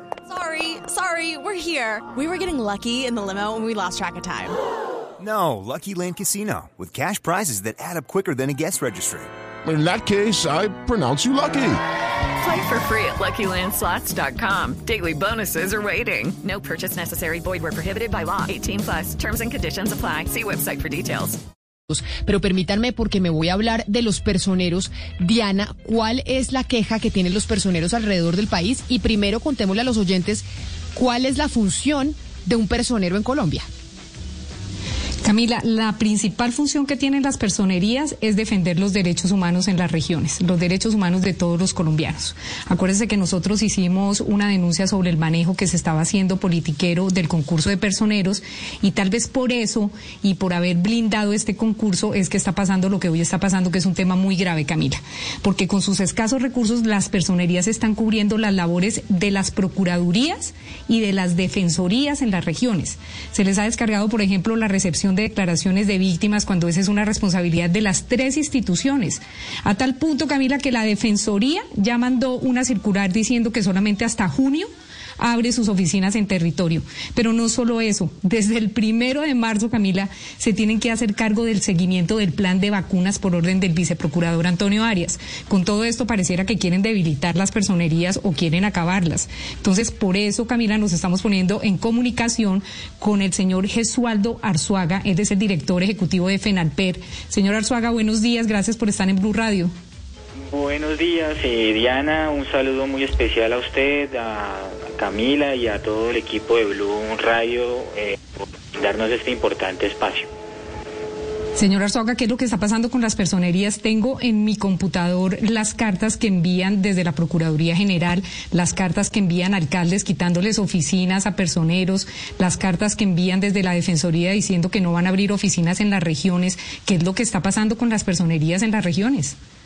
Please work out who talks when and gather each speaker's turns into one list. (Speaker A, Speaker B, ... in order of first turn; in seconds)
Speaker A: 0.3-4.6
Speaker B: 5.2-9.3
Speaker C: 9.6-11.8
Speaker D: 12.4-21.4
Speaker E: 21.9-33.6
Speaker F: 35.2-99.7, 111.5-129.4
Speaker G: 100.4-110.3